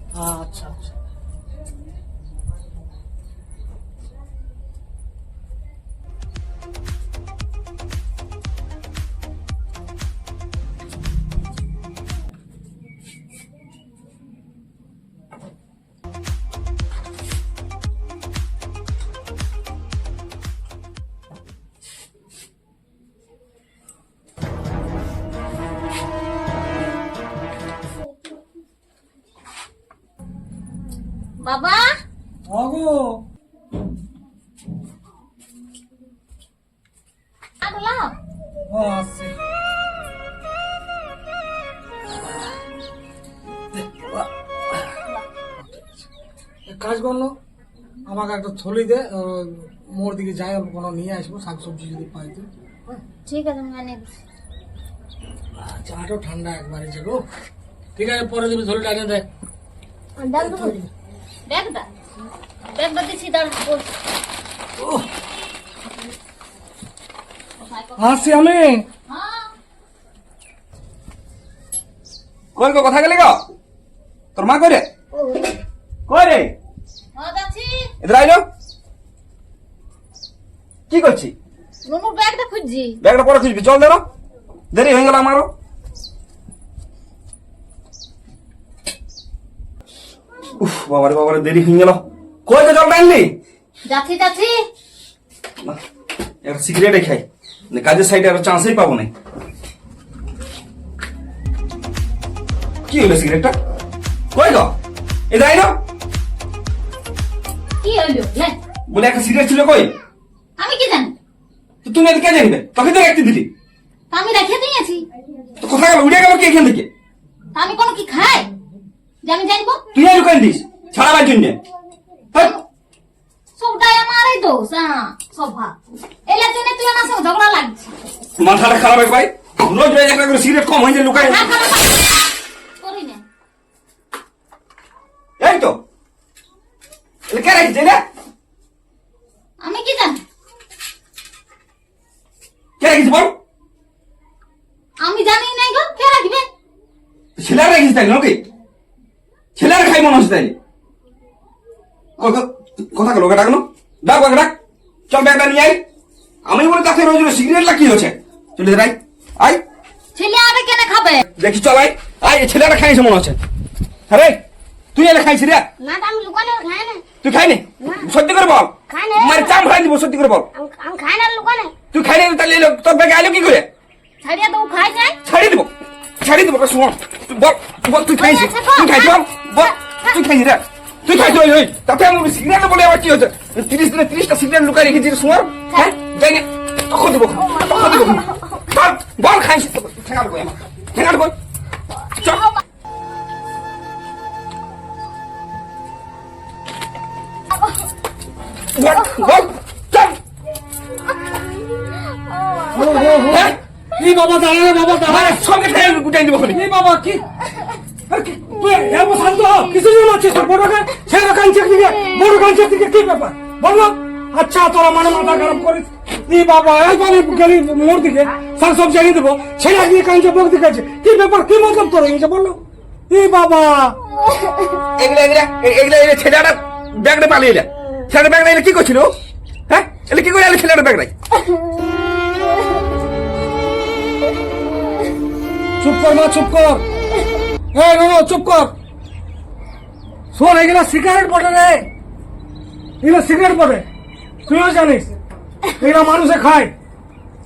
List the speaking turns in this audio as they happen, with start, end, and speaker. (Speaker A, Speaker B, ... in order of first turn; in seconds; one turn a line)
Speaker A: 0.1-0.9
Speaker B: 31.4-31.9
Speaker A: 32.5-33.2
Speaker B: 37.6-38.2
Speaker A: 38.7-39.4
Speaker A: 42.1-42.4
Speaker A: 43.8-44.3
Speaker A: 45.6-46.1
Speaker A: 46.7-47.3
Speaker A: 48.1-52.5
Speaker B: 53.1-54.1
Speaker A: 55.6-57.2
Speaker A: 58.0-59.3
Speaker B: 60.2-60.8
Speaker A: 60.4-60.8
Speaker B: 61.5-61.9
Speaker B: 62.7-63.9
Speaker A: 64.8-65.0
Speaker B: 67.6-68.2
Speaker A: 68.0-68.9
Speaker B: 69.1-69.5
Speaker C: 72.6-73.5
Speaker C: 74.4-74.9
Speaker C: 76.1-76.5
Speaker B: 77.2-77.9
Speaker C: 78.0-78.5
Speaker C: 80.9-81.3
Speaker B: 81.9-83.0
Speaker C: 83.0-84.0
Speaker C: 84.7-85.5
Speaker C: 90.6-93.3
Speaker B: 93.9-94.5
Speaker C: 96.4-99.1
Speaker C: 102.9-103.5
Speaker C: 104.3-104.8
Speaker C: 105.3-105.8
Speaker B: 107.8-108.6
Speaker C: 108.9-109.9
Speaker B: 110.6-111.1
Speaker C: 111.8-113.5
Speaker B: 114.1-115.1
Speaker C: 115.6-116.9
Speaker B: 117.5-118.5
Speaker B: 119.2-119.8
Speaker C: 119.9-121.6
Speaker B: 122.3-122.6
Speaker B: 123.6-125.8
Speaker B: 126.3-127.9
Speaker C: 128.4-131.5
Speaker B: 131.1-132.0
Speaker B: 132.8-133.2
Speaker C: 135.4-135.8
Speaker C: 137.3-138.0
Speaker B: 139.6-140.2
Speaker C: 142.8-143.3
Speaker B: 145.0-146.5
Speaker C: 147.4-148.4
Speaker C: 149.6-150.6
Speaker C: 152.2-154.6
Speaker C: 155.1-155.8
Speaker C: 156.5-159.6
Speaker B: 160.2-161.2
Speaker C: 161.4-163.4
Speaker C: 164.1-164.4
Speaker C: 164.9-165.7
Speaker D: 165.8-167.0
Speaker C: 167.2-170.5
Speaker D: 168.9-169.6
Speaker D: 170.6-171.7
Speaker C: 171.9-173.7
Speaker B: 174.2-175.2
Speaker C: 175.2-175.7
Speaker C: 176.2-191.3
Speaker B: 178.2-180.2
Speaker B: 187.8-188.2
Speaker C: 192.2-192.5
Speaker C: 198.8-200.2
Speaker A: 202.7-205.4
Speaker C: 203.3-203.6
Speaker C: 205.1-206.6
Speaker A: 206.5-207.2
Speaker A: 208.1-224.0
Speaker C: 225.0-229.1
Speaker C: 229.7-231.1
Speaker A: 235.8-236.8
Speaker A: 237.7-238.7
Speaker A: 240.3-241.9
Speaker A: 243.0-243.9
Speaker A: 244.5-245.1
Speaker A: 245.7-246.7